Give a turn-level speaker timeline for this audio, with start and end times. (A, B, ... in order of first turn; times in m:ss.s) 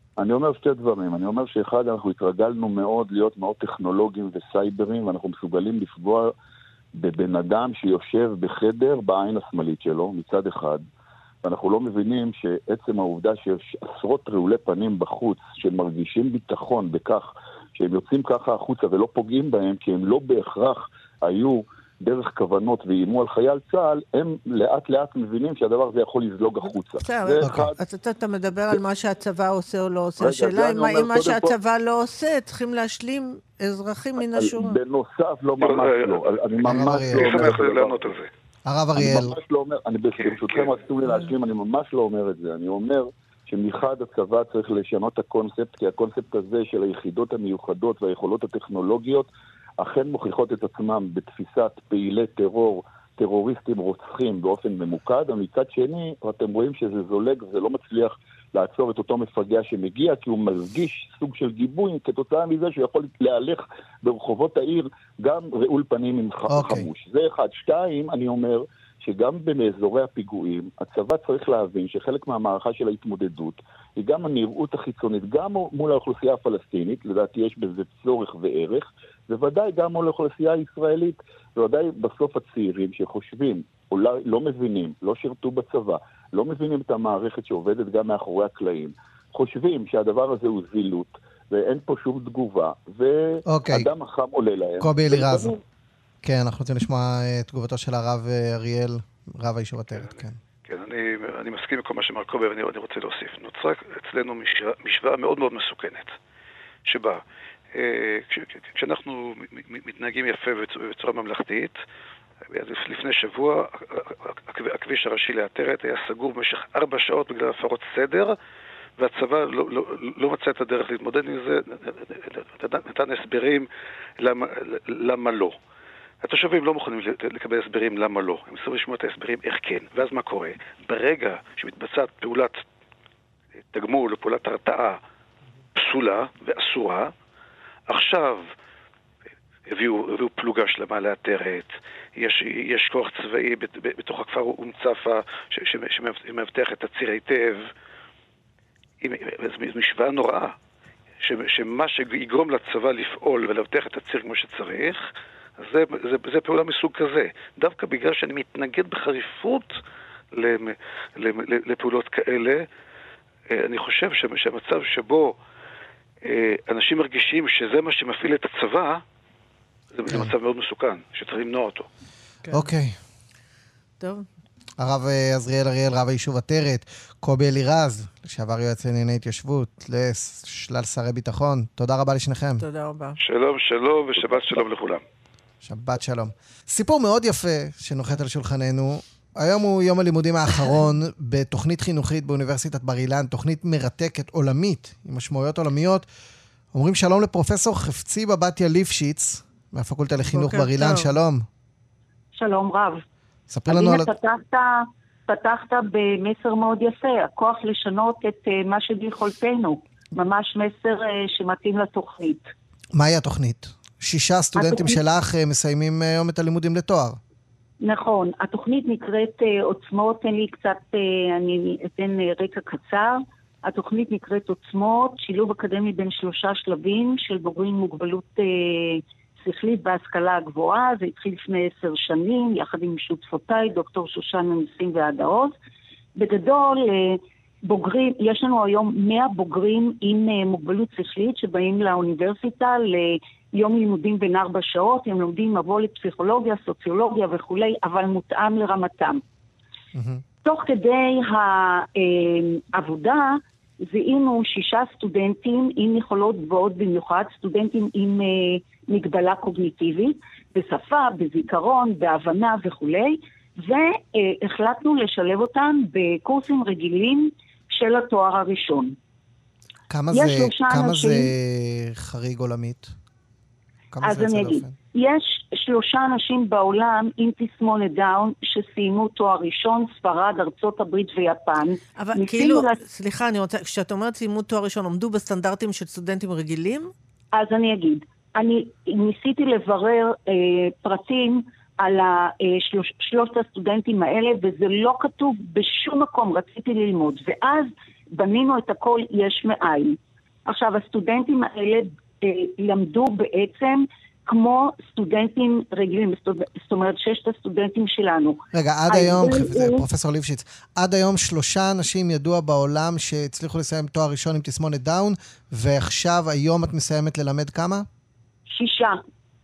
0:00.2-0:06.3 A
0:07.0-0:10.8 A
0:11.4-0:27.8 A
0:27.0-0:34.8 B
0:27.4-0:27.7 C
0:30.2-0:31.5 A
0:34.3-0:38.1 A
0:35.6-0:36.2 D
0:36.6-0:37.6 C
0:36.7-0:38.3 D
0:38.6-0:39.4 C
0:39.0-1:35.6 A
0:40.2-0:40.7 D
1:06.5-1:06.9 C
1:33.5-1:33.9 C
1:34.8-1:35.5 C
1:36.2-1:40.4 C
1:40.6-1:46.2 D
1:46.9-1:47.2 D
1:47.7-1:51.8 D
1:52.5-1:58.4 D
1:59.0-2:03.7 D
2:04.2-2:05.5 D
2:06.2-2:12.6 D
2:13.7-2:15.0 D
2:15.7-2:17.1 D
2:17.9-2:18.5 D
2:19.7-2:27.7 D
2:29.0-2:30.5 D
2:31.2-2:35.0 D
2:35.6-2:39.8 D
2:40.3-2:42.7 D
2:43.5-2:45.4 D
2:46.2-2:49.0 D
2:49.9-2:51.9 D
2:52.5-2:53.0 C
2:54.0-2:54.2 B
2:54.8-3:02.6 C
3:02.6-3:03.2 B
3:03.2-3:05.0 D
3:05.6-3:16.0 C
3:16.7-3:21.4 C
3:20.3-3:21.2 B
3:22.3-3:23.0 E
3:23.5-3:24.1 C
3:23.7-3:32.5 E
3:32.9-3:37.2 C
3:34.6-3:35.0 E
3:37.8-3:55.5 E
3:56.2-4:09.2 E
4:09.9-4:10.2 C
4:10.4-4:29.0 E
4:29.9-4:32.9 C
4:30.1-4:31.3 E
4:33.9-4:34.8 C
4:34.0-4:42.8 E
4:42.0-4:46.9 B
4:47.3-5:09.9 E
5:08.5-5:17.9 C
5:18.5-5:19.0 E